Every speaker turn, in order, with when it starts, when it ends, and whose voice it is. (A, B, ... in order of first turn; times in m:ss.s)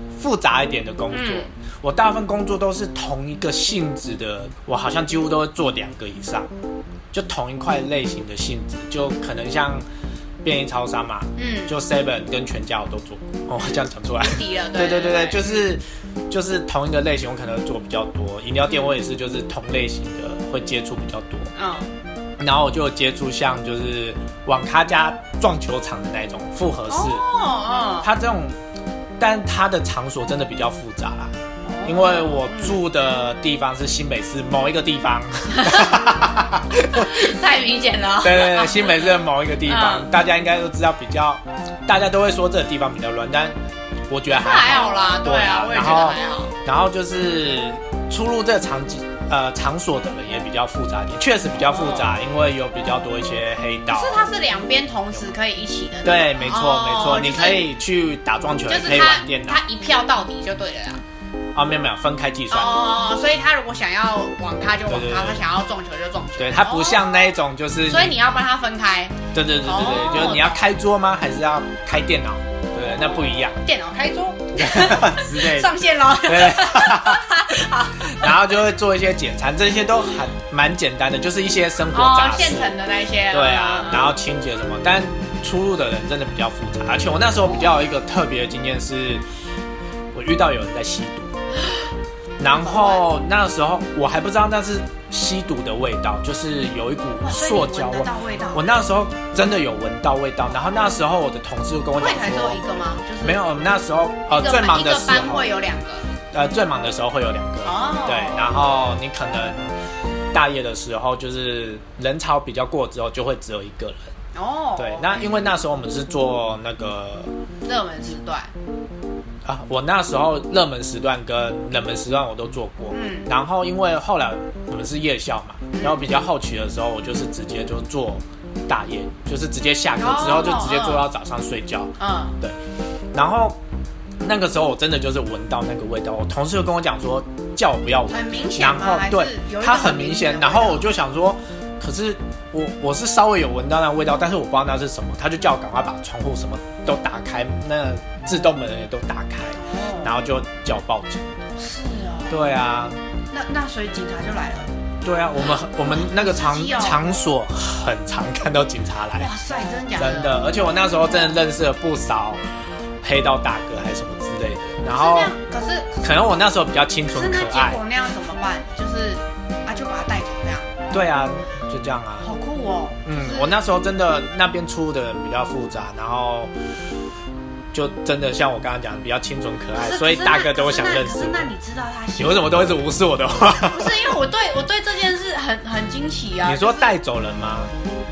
0:00.1-0:06.5 A
0:01.1-0:01.5 B
0:07.1-0:09.8 A
0:10.4-0:21.5 A
0:11.4-0:11.8 B
0:13.6-0:15.6 B
0:21.6-0:21.9 B
0:22.4-0:27.2 A
0:26.9-0:28.1 B
0:28.0-0:28.6 A
0:29.2-0:31.3 A
0:31.6-0:32.8 B
0:31.8-0:37.3 A
0:35.5-0:36.1 B
0:36.9-0:39.1 B
0:38.2-0:43.6 A
0:39.6-0:40.1 B
0:44.1-0:54.3 A
0:44.3-0:46.5 B
0:51.6-0:52.1 B
0:53.9-0:57.7 B
0:56.0-0:59.6 A
0:58.7-1:01.0 B
1:01.5-1:02.9 A
1:02.5-1:07.3 B
1:04.9-1:05.4 A
1:06.4-1:08.1 A
1:07.9-1:10.7 B
1:09.3-1:13.6 A
1:13.5-1:18.3 B
1:14.6-1:22.8 A
1:21.9-1:24.1 B
1:23.3-1:29.2 A
1:30.1-1:31.3 A
1:32.4-1:42.6 A
1:32.6-1:33.0 B
1:37.2-1:38.7 B
1:42.0-1:43.4 B
1:43.2-1:45.5 A
1:44.3-1:46.1 B
1:46.3-1:49.7 A
1:47.6-1:48.5 B
1:50.3-1:54.1 A
1:54.3-1:55.5 B
1:54.8-1:57.3 A
1:57.6-1:58.5 B
1:59.4-2:12.6 A
2:02.9-2:03.3 B
2:05.7-2:06.1 B
2:10.0-2:11.1 B
2:12.0-2:12.4 B
2:13.1-2:13.6 A
2:14.2-2:31.3 A
2:18.1-2:20.8 B
2:29.5-2:30.1 B
2:31.6-2:32.4 B
2:32.3-2:33.0 A
2:33.3-2:34.7 B
2:35.0-2:39.3 A
2:35.4-2:37.2 B
2:39.2-2:41.4 B
2:40.0-2:42.4 A
2:43.0-2:45.3 A
2:44.9-2:46.0 B
2:46.0-2:47.8 A
2:47.1-2:50.7 B
2:50.9-2:52.3 A
2:52.2-2:53.5 B
2:53.1-2:56.5 A
2:57.7-3:01.5 A
2:59.8-3:02.7 B
3:02.2-3:04.0 A
3:03.5-3:06.9 B
3:06.4-3:07.7 A